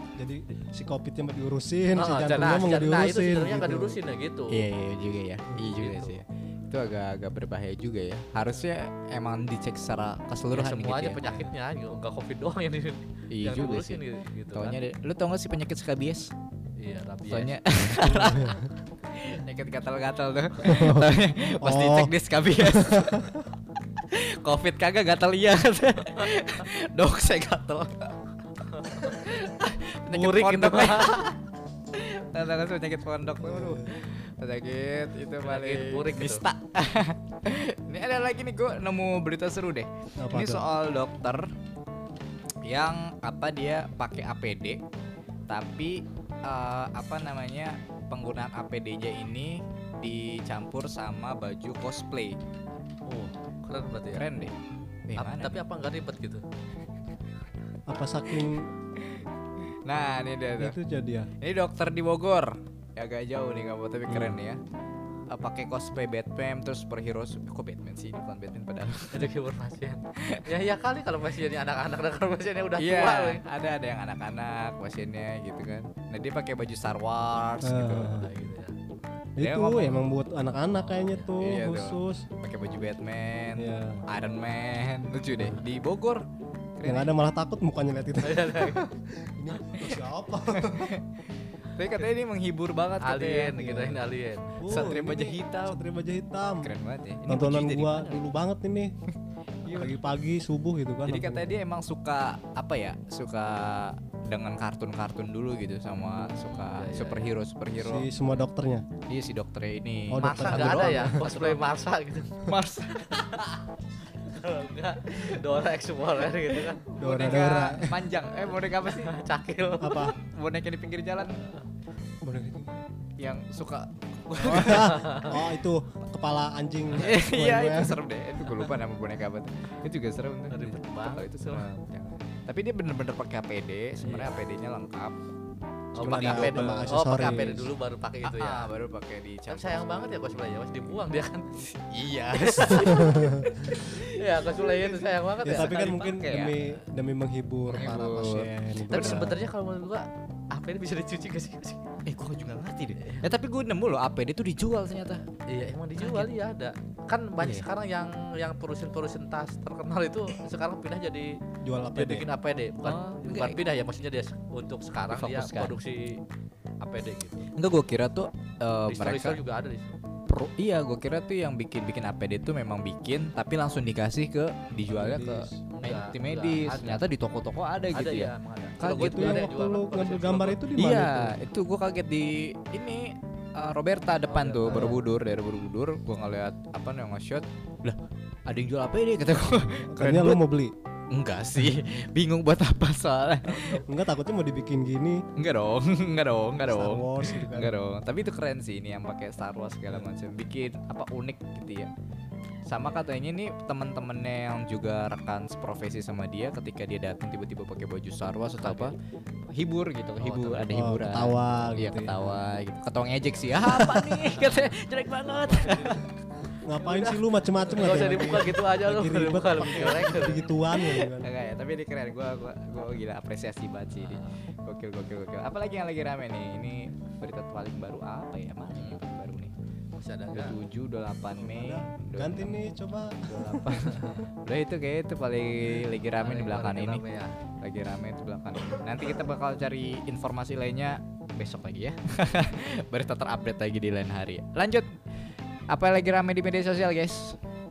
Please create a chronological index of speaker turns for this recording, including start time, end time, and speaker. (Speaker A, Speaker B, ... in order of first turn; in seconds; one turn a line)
Speaker A: 0.1-4.0
Speaker B: 1.9-4.6
Speaker C: 4.5-11.2
Speaker B: 5.8-6.2
Speaker B: 10.5-14.8
Speaker C: 13.3-16.3
Speaker B: 16.8-17.6
Speaker C: 17.3-23.4
Speaker A: 18.0-18.6
Speaker A: 20.6-23.4
Speaker C: 24.1-28.1
Speaker B: 28.7-29.2
Speaker C: 28.9-31.4
Speaker B: 30.1-31.3
Speaker C: 31.9-41.5
Speaker A: 33.4-33.9
Speaker B: 35.4-36.4
Speaker A: 40.2-40.6
Speaker C: 42.6-44.8
Speaker C: 45.5-52.4
Speaker B: 53.1-54.3
Speaker C: 54.1-54.5
Speaker C: 55.1-55.5
Speaker B: 55.2-56.4
Speaker A: 57.9-58.7
Speaker C: 59.0-59.2
Speaker C: 59.8-60.8
Speaker A: 60.6-61.3
Speaker C: 61.4-64.6
Speaker C: 65.3-69.3
Speaker B: 69.1-73.4
Speaker C: 70.2-70.4
Speaker C: 72.8-78.2
Speaker A: 77.6-78.3
Speaker B: 78.2-78.8
Speaker A: 79.4-82.3
Speaker C: 79.4-80.0
Speaker B: 80.7-81.3
Speaker C: 81.4-86.2
Speaker A: 83.6-84.0
Speaker C: 86.8-87.1
Speaker A: 86.8-90.9
Speaker B: 88.2-88.8
Speaker C: 89.6-90.0
Speaker C: 90.5-93.9
Speaker B: 93.0-94.6
Speaker A: 93.6-94.0
Speaker A: 94.6-96.7
Speaker C: 94.7-95.8
Speaker C: 96.6-98.1
Speaker A: 97.2-98.9
Speaker C: 99.6-100.0
Speaker A: 99.7-101.5
Speaker C: 101.0-108.1
Speaker B: 106.2-107.3
Speaker A: 107.8-108.8
Speaker C: 109.1-111.7
Speaker A: 110.1-111.2
Speaker B: 110.2-112.5
Speaker C: 112.5-113.5
Speaker B: 113.1-113.4
Speaker B: 114.2-116.9
Speaker C: 116.9-119.1
Speaker A: 117.0-118.0
Speaker B: 118.8-120.1
Speaker A: 119.8-120.1
Speaker C: 120.2-121.4
Speaker A: 122.2-122.8
Speaker C: 123.2-125.0
Speaker A: 124.4-128.0
Speaker B: 124.5-125.4
Speaker C: 126.9-135.1
Speaker B: 130.5-131.7
Speaker B: 134.0-134.4
Speaker B: 135.9-138.7
Speaker C: 136.0-137.0
Speaker A: 136.0-137.7
Speaker C: 138.2-140.9
Speaker B: 139.5-141.6
Speaker C: 141.7-146.7
Speaker B: 142.3-146.1
Speaker A: 142.7-143.4
Speaker A: 145.4-149.4
Speaker C: 147.7-149.4
Speaker B: 148.9-151.8
Speaker C: 152.1-155.2
Speaker B: 153.0-153.3
Speaker B: 155.4-161.4
Speaker C: 156.0-156.3
Speaker C: 157.4-157.7
Speaker A: 161.6-162.3
Speaker B: 161.9-166.2
Speaker C: 162.8-163.6
Speaker C: 165.1-165.8
Speaker B: 166.8-167.5
Speaker C: 167.5-169.4
Speaker B: 168.9-169.9
Speaker C: 170.3-179.5
Speaker A: 174.8-175.6
Speaker B: 175.7-177.0
Speaker B: 177.9-180.6
Speaker A: 178.9-181.3
Speaker C: 180.8-190.4
Speaker B: 184.3-185.0
Speaker A: 184.7-185.0
Speaker A: 189.8-190.7
Speaker C: 191.1-193.8
Speaker B: 193.4-193.8
Speaker A: 193.8-195.2
Speaker C: 195.3-201.9
Speaker A: 196.6-197.7
Speaker C: 202.7-208.9
Speaker B: 208.6-208.9
Speaker C: 209.5-216.0
Speaker B: 210.2-210.7
Speaker A: 210.7-212.4
Speaker A: 213.6-214.3
Speaker B: 214.3-214.7
Speaker A: 215.4-216.0
Speaker B: 215.4-216.0
Speaker A: 216.6-221.3
Speaker B: 216.8-221.0
Speaker C: 219.6-220.3
Speaker C: 221.2-229.5
Speaker B: 224.0-224.3
Speaker B: 228.7-229.0
Speaker B: 229.9-230.6
Speaker C: 230.3-232.6
Speaker A: 231.4-233.9
Speaker C: 233.3-237.0
Speaker B: 233.9-234.2
Speaker B: 236.2-237.3
Speaker C: 237.6-244.8
Speaker C: 245.7-247.4